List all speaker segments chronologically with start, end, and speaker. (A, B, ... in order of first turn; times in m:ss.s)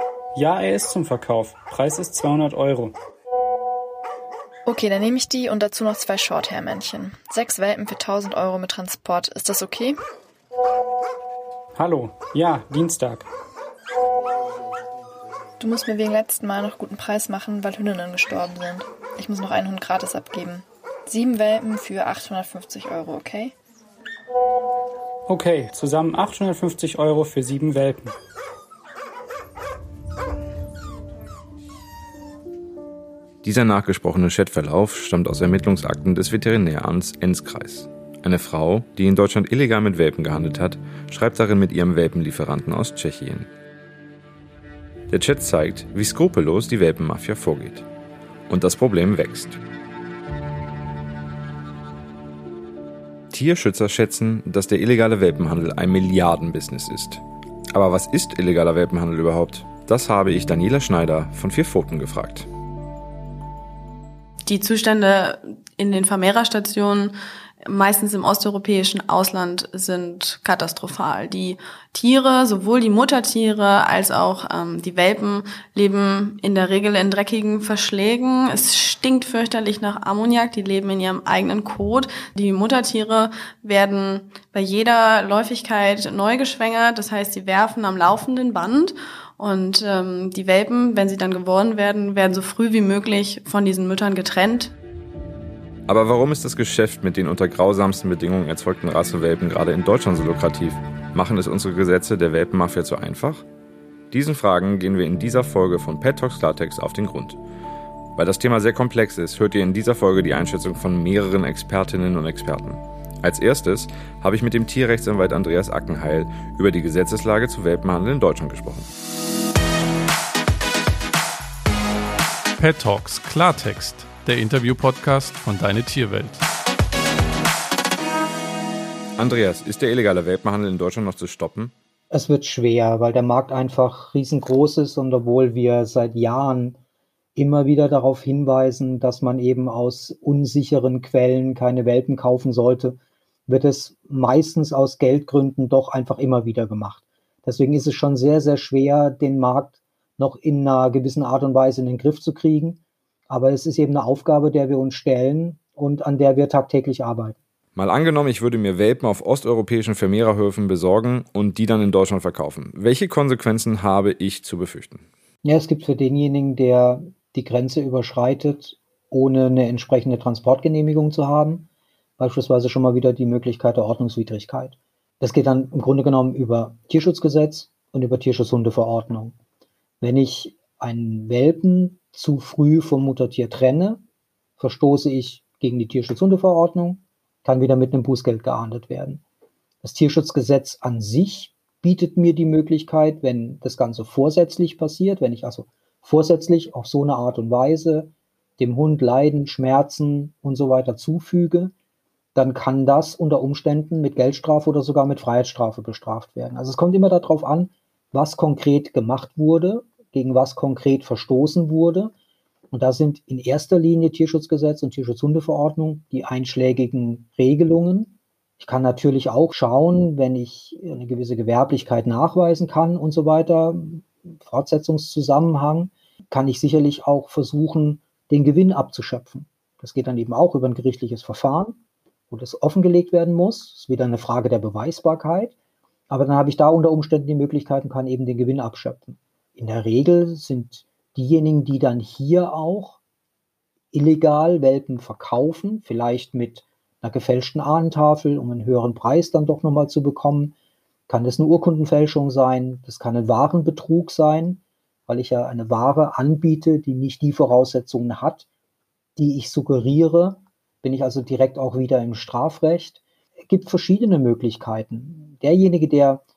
0:00.4-0:03.0 A
0:04.7-0:10.0 B
0:11.8-0:13.3 A
0:15.6-0:23.5 B
0:25.3-0:28.1 A
0:33.4-0:43.5 C
0:45.1-0:47.9 C
0:48.5-0:49.6 C
0:53.3-0:57.2 C
0:57.7-1:02.5 C
1:04.5-1:07.1 D
1:07.7-1:34.8 D
1:35.9-1:43.4 C
1:44.1-1:47.4 C
1:48.2-1:58.9 C
2:02.6-2:06.4 E
2:09.2-2:11.7 C
2:12.1-2:16.8 F
2:17.4-2:37.4 F
2:37.8-2:45.1 C
2:45.4-2:51.7 F
2:52.2-2:59.4 F
3:00.0-3:04.0 F
3:04.6-3:09.2 F
3:09.8-3:21.7 F
3:22.4-3:32.1 F
3:32.7-3:51.8 F
3:52.3-3:55.6 F
3:56.1-4:03.0 F
4:03.9-4:10.5 F
4:11.1-4:18.5 F
4:19.2-4:26.2 F